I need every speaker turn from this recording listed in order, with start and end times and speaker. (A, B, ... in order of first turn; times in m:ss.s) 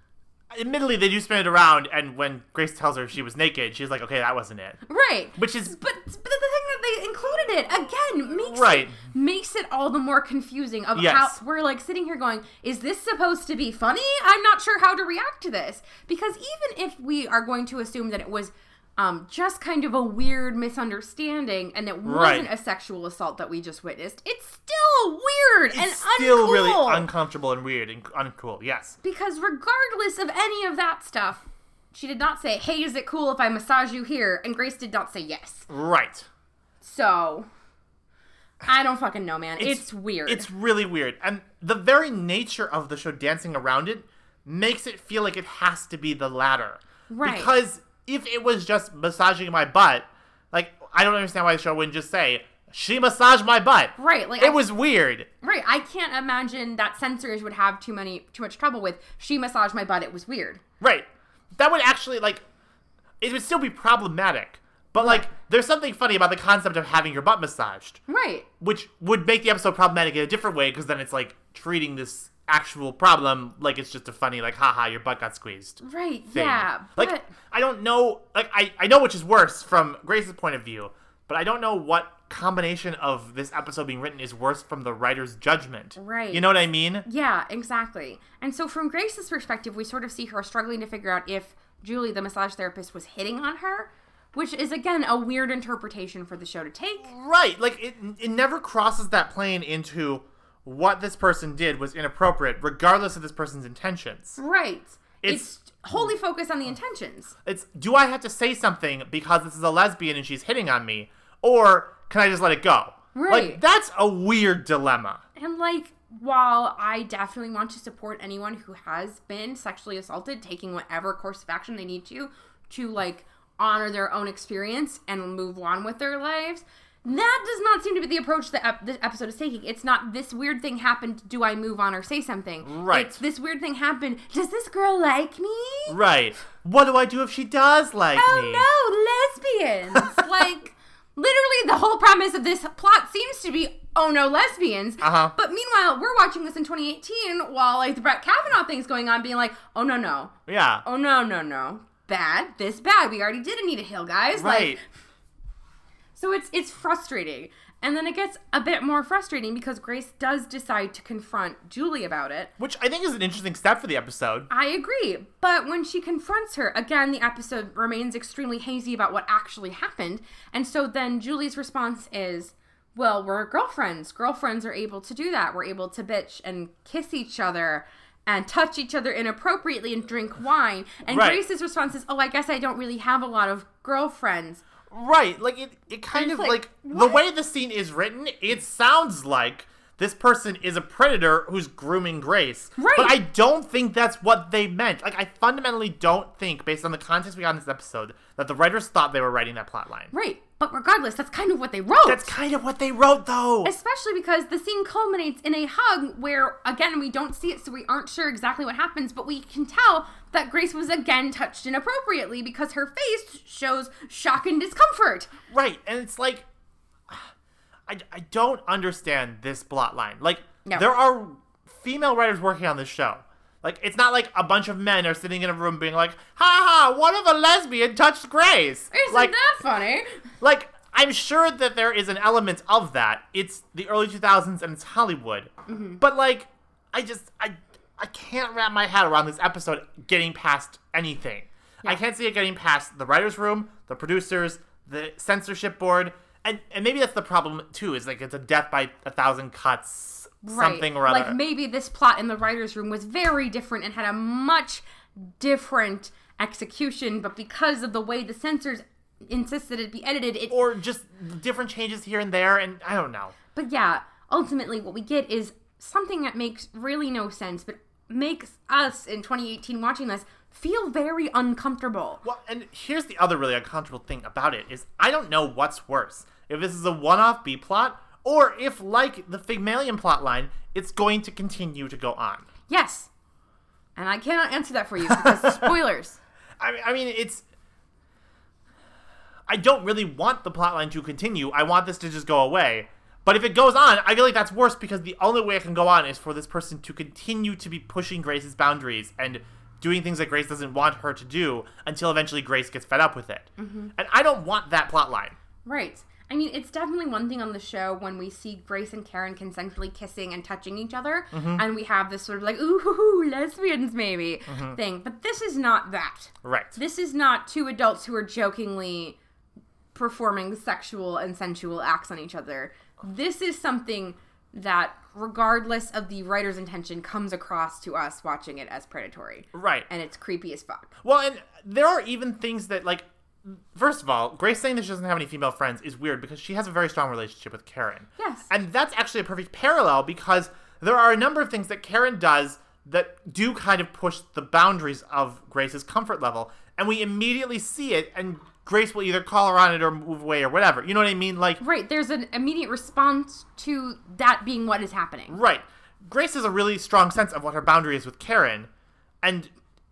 0:00.5-0:04.8 A
0:04.9-0:27.0 B
0:05.4-0:05.8 A
0:08.5-0:09.0 A
0:10.9-0:11.4 A
0:22.0-0:22.5 A
0:25.7-0:29.0 A
0:29.0-0:35.7 B
0:35.7-0:36.3 A
0:36.8-0:37.5 B
0:38.6-0:40.5 B
0:39.6-0:55.3 A
0:47.1-0:47.5 B
0:54.0-0:54.6 B
0:55.4-1:00.6 B
1:00.8-1:02.4 A
1:03.2-1:08.0 A
1:05.0-1:05.2 B
1:08.1-1:08.5 B
1:08.6-1:27.0 A
1:15.8-1:17.3 B
1:26.0-1:26.5 B
1:27.0-1:37.1 B
1:37.0-1:44.4 A
1:44.4-1:47.3 B
1:45.2-1:45.5 A
1:47.4-1:55.2 A
1:53.1-1:53.6 B
1:55.4-2:16.0 B
2:12.6-2:13.2 A
2:15.9-2:18.6 A
2:18.1-2:34.8 B
2:20.0-2:20.2 A
2:25.0-2:25.3 A
2:30.5-2:30.8 A
2:34.3-2:34.8 A
2:36.2-2:42.5 B
2:42.6-2:44.5 A
2:44.5-3:04.6 B
3:01.1-3:01.4 A
3:04.9-3:20.1 A
3:06.1-3:07.2 B
3:12.8-3:13.2 B
3:20.1-3:22.3 B
3:22.0-3:23.7 A
3:23.6-3:35.4 B
3:35.5-3:36.4 A
3:37.9-3:49.3 A
3:48.9-3:50.0 B
3:50.4-4:11.4 A
3:55.7-3:56.0 B
4:10.4-4:20.6 B
4:20.5-4:23.3 A
4:23.5-4:32.2 B
4:32.2-4:42.5 A
4:42.7-4:43.1 B
4:44.0-4:46.2 B
4:45.0-4:45.8 A
4:46.6-4:47.4 A
4:49.5-5:05.4 A
5:03.6-5:03.9 B
5:05.6-5:19.2 B
5:11.3-5:11.6 A
5:14.5-5:14.8 A
5:16.4-5:16.8 A
5:19.9-5:30.9 B
5:29.5-5:29.9 A
5:31.0-5:51.6 A
5:38.2-5:38.5 B
5:51.6-5:55.4 B
5:55.3-5:58.7 A
5:59.2-5:59.5 A